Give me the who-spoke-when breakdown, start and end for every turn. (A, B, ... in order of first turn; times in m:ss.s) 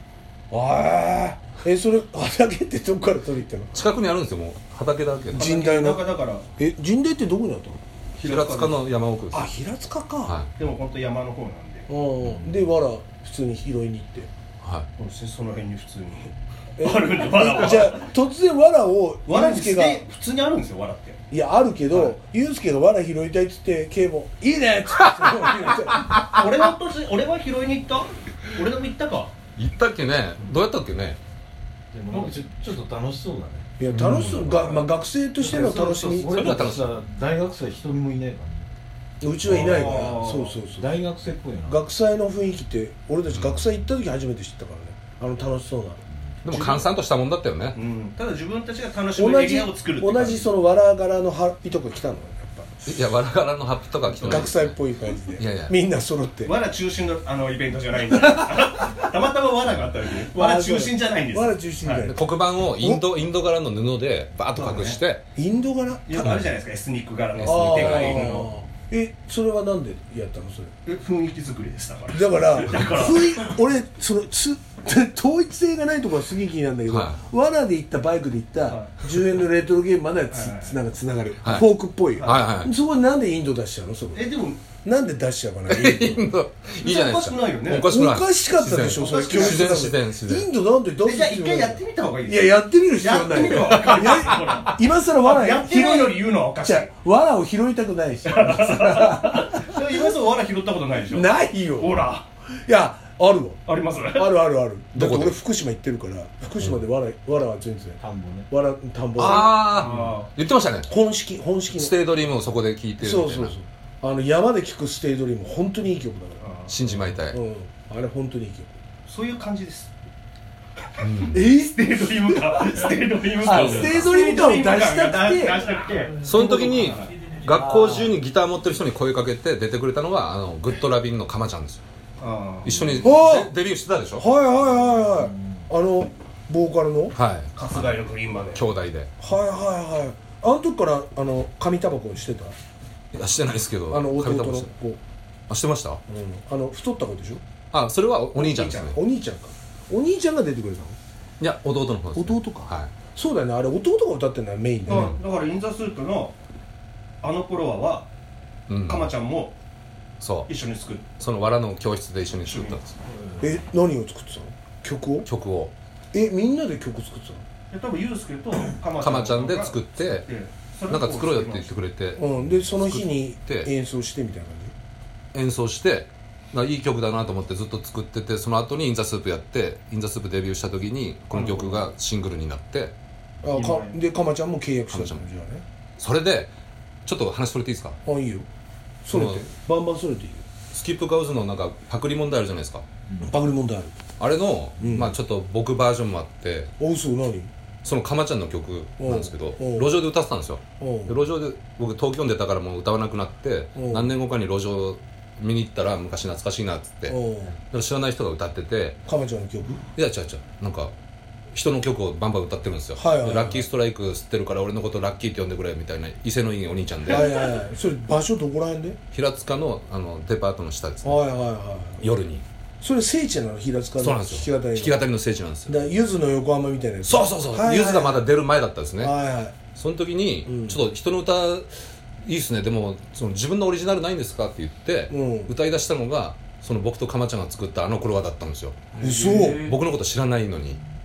0:00.5-0:03.7 A
0:03.7-0:05.5 B
0:05.3-0:06.4 C
0:05.3-0:07.8 A
0:08.2-0:08.8 C
0:08.2-0:09.5 B
0:09.3-0:10.4 A
0:10.2-0:10.5 B
0:10.6-0:11.9 C
0:11.9-0:14.3 A
0:14.6-0:14.9 B
0:15.0-0:18.1 C
0:16.8-0:20.0 A
0:19.2-0:21.2 C
0:21.3-0:26.2 A
0:21.9-0:22.1 C
0:26.3-0:29.3 C
0:29.6-0:31.2 B
0:31.9-0:34.8 D
0:32.1-0:32.4 C
0:33.8-0:36.7 A
0:33.9-0:34.7 B
0:35.4-0:38.7 D
0:35.8-0:36.2 C
0:36.2-0:37.0 B
0:39.2-0:40.9 A
0:39.4-0:40.2 D
0:39.4-0:40.6 C
0:40.7-0:41.9 D
0:41.6-0:46.0 A
0:43.3-0:43.6 B
0:46.4-0:47.8 B
0:46.5-0:46.9 C
0:47.7-0:50.5 C
0:49.2-0:52.7 A
0:52.8-0:54.8 B
0:54.2-0:56.5 A
0:55.3-0:55.7 B
0:56.4-1:02.0 C
1:00.3-1:02.2 A
1:01.9-1:05.2 B
1:02.8-1:03.0 A
1:04.5-1:05.0 C
1:05.3-1:06.4 A
1:06.0-1:08.5 C
1:07.4-1:08.4 B
1:07.4-1:10.7 A
1:10.8-1:13.5 C
1:12.1-1:26.2 A
1:16.9-1:17.2 B
1:18.6-1:19.0 C
1:20.3-1:20.8 C
1:22.2-1:22.7 B
1:24.1-1:24.6 C
1:25.7-1:30.5 B
1:26.7-1:27.9 C
1:27.7-1:40.1 A
1:29.0-1:29.8 C
1:31.0-1:36.9 C
1:38.3-1:41.3 C
1:41.1-1:42.1 A
1:41.8-1:42.3 C
1:42.7-1:43.6 A
1:43.6-1:44.3 C
1:44.1-1:48.0 A
1:44.9-1:45.4 B
1:46.6-1:46.8 B
1:48.0-1:48.5 D
1:48.5-1:49.6 A
1:49.2-1:50.3 C
1:49.2-1:50.9 B
1:50.9-1:52.0 A
1:51.7-1:53.5 B
1:53.0-1:56.4 A
1:56.4-1:57.0 C
1:56.7-1:57.4 B
1:57.2-1:58.7 A
1:59.1-1:59.9 C
2:01.0-2:01.4 B
2:01.0-2:07.2 C
2:01.3-2:02.0 A
2:03.4-2:05.7 A
2:03.5-2:04.1 B
2:06.2-2:11.8 B
2:07.5-2:08.1 A
2:12.2-2:12.8 C
2:12.6-2:14.2 B
2:13.0-2:13.6 A
2:14.2-2:17.2 A
2:17.1-2:19.1 B
2:17.5-2:18.6 C
2:19.2-2:22.5 A
2:23.1-2:24.7 B
2:23.9-2:25.0 A
2:25.5-2:26.0 B
2:26.1-2:27.4 A
2:27.7-2:29.0 B
2:28.3-2:28.9 C
2:28.7-2:31.0 A
2:31.4-2:32.9 B
2:32.1-2:35.2 A
2:34.9-2:36.3 C
2:34.9-2:35.1 B
2:37.2-2:38.1 C
2:38.7-2:39.1 B
2:38.8-2:39.5 C
2:40.2-2:40.5 B
2:40.5-2:41.0 C
2:41.2-2:42.9 B
2:42.4-2:42.8 C
2:43.4-2:45.3 A
2:45.2-2:45.7 B
2:46.1-2:47.4 A
2:47.7-2:51.8 C
2:49.0-2:50.3 B
2:50.9-2:53.7 B
2:52.2-2:54.7 A
2:55.3-3:02.9 B
3:01.3-3:01.8 C
3:03.4-3:05.6 A
3:03.5-3:03.9 C
3:04.9-3:05.2 B
3:06.0-3:06.5 B
3:07.0-3:08.0 B
3:08.0-3:08.5 A
3:09.0-3:10.4 A
3:09.1-3:09.5 B
3:10.7-3:12.8 B
3:13.2-3:13.9 A
3:14.2-3:16.7 B
3:14.8-3:15.1 A
3:16.8-3:17.5 A
3:17.8-3:27.2 B
3:19.0-3:19.9 A
3:20.8-3:21.2 A
3:23.8-3:24.1 A
3:27.1-3:27.5 A
3:27.7-3:29.0 B
3:29.0-3:29.8 A
3:30.0-3:30.9 B
3:31.5-3:37.3 B
3:33.0-3:33.6 A
3:37.1-3:39.0 A
3:39.1-3:41.2 B
3:41.0-3:42.1 A
3:42.0-3:42.4 B
3:42.8-3:45.0 A
3:44.0-3:45.8 B
3:45.7-3:48.2 A
3:47.0-3:49.1 B
3:49.0-3:49.5 A
3:49.7-3:51.7 B
3:50.4-3:50.8 A
3:52.2-4:00.8 B
3:55.1-3:55.5 A
3:59.0-3:59.7 A
3:59.0-3:59.6 D